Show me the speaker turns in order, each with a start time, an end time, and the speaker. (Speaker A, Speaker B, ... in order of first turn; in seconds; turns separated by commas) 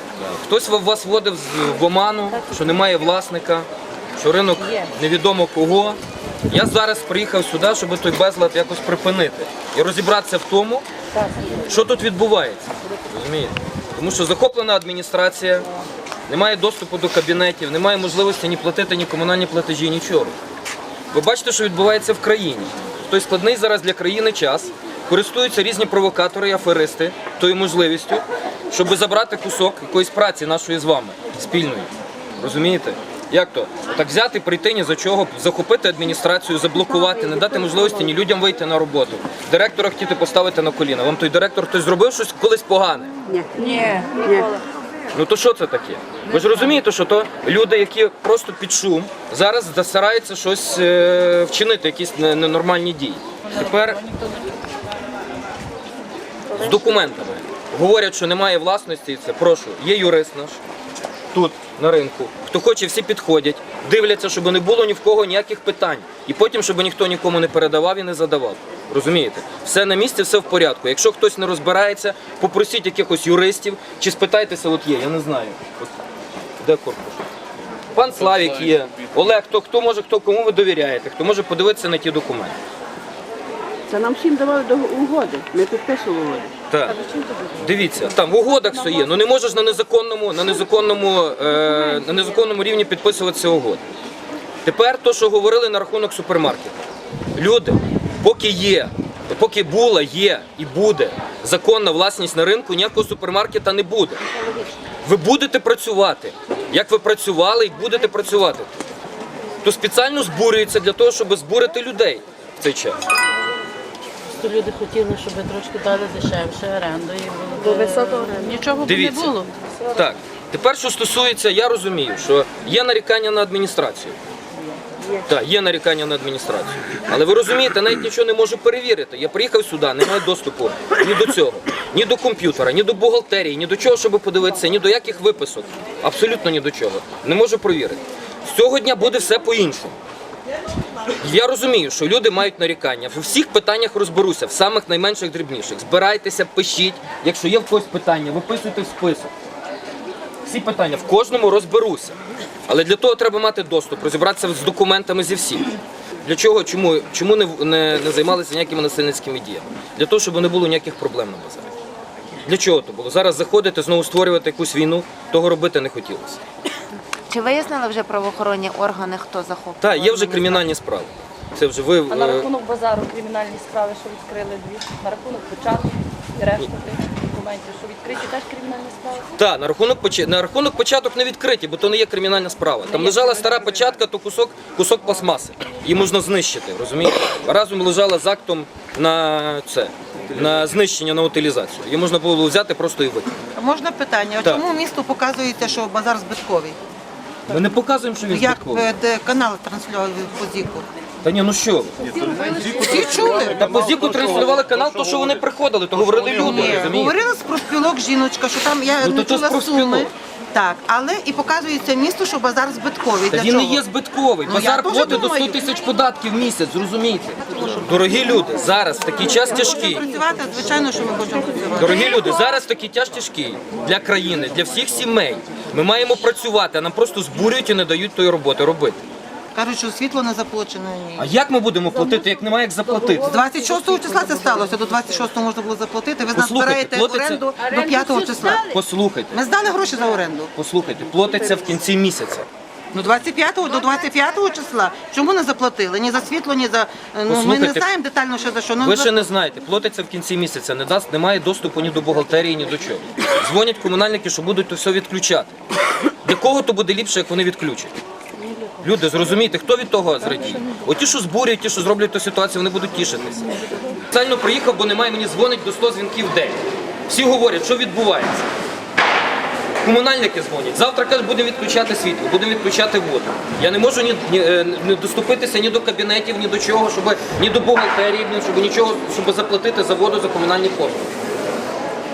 Speaker A: 0.1-10.8, Speaker B: 2.3-2.6, Speaker B: 11.1-11.6, Speaker A: 11.7-15.7, Speaker A: 16.3-20.4, Speaker A: 21.1-43.1, Speaker C: 43.3-44.5, Speaker B: 43.6-44.5, Speaker A: 45.1-54.0, Speaker A: 56.5-60.6, Speaker A: 61.3-76.0, Speaker A: 76.6-77.2, Speaker A: 77.9-82.6, Speaker C: 83.9-86.5, Speaker A: 86.7-87.0, Speaker A: 87.5-93.8, Speaker A: 94.7-96.8, Speaker A: 97.3-104.2, Speaker A: 105.0-108.7, Speaker A: 109.6-113.0, Speaker D: 114.4-118.6, Speaker E: 117.8-119.4, Speaker A: 118.8-119.4, Speaker A: 119.9-124.2, Speaker A: 125.1-140.0, Speaker A: 141.2-149.3, Speaker A: 150.4-155.7, Speaker A: 156.2-161.7, Speaker A: 162.4-166.4, Speaker F: 167.3-170.7, Speaker A: 169.8-172.5, Speaker B: 172.1-179.3, Speaker A: 179.4-193.3, Speaker E: 193.6-196.8, Speaker A: 197.5-198.9, Speaker E: 198.3-200.9, Speaker A: 201.2-201.9, Speaker B: 202.3-202.7, Speaker E: 202.6-203.8, Speaker A: 202.9-207.1, Speaker E: 206.3-213.8, Speaker A: 209.0-210.1, Speaker A: 213.3-220.0, Speaker E: 214.5-215.6, Speaker E: 219.2-222.2, Speaker A: 221.8-229.0, Speaker E: 229.6-231.3, Speaker A: 231.2-233.4, Speaker E: 233.2-238.8, Speaker B: 233.7-234.6, Speaker A: 236.3-237.4, Speaker B: 237.7-238.4, Speaker A: 238.4-239.4, Speaker E: 239.3-240.5, Speaker A: 240.6-242.5, Speaker E: 242.9-249.2, Speaker A: 247.3-247.9, Speaker A: 248.8-255.6, Speaker A: 256.2-257.9, Speaker A: 258.8-268.4, Speaker A: 269.8-281.1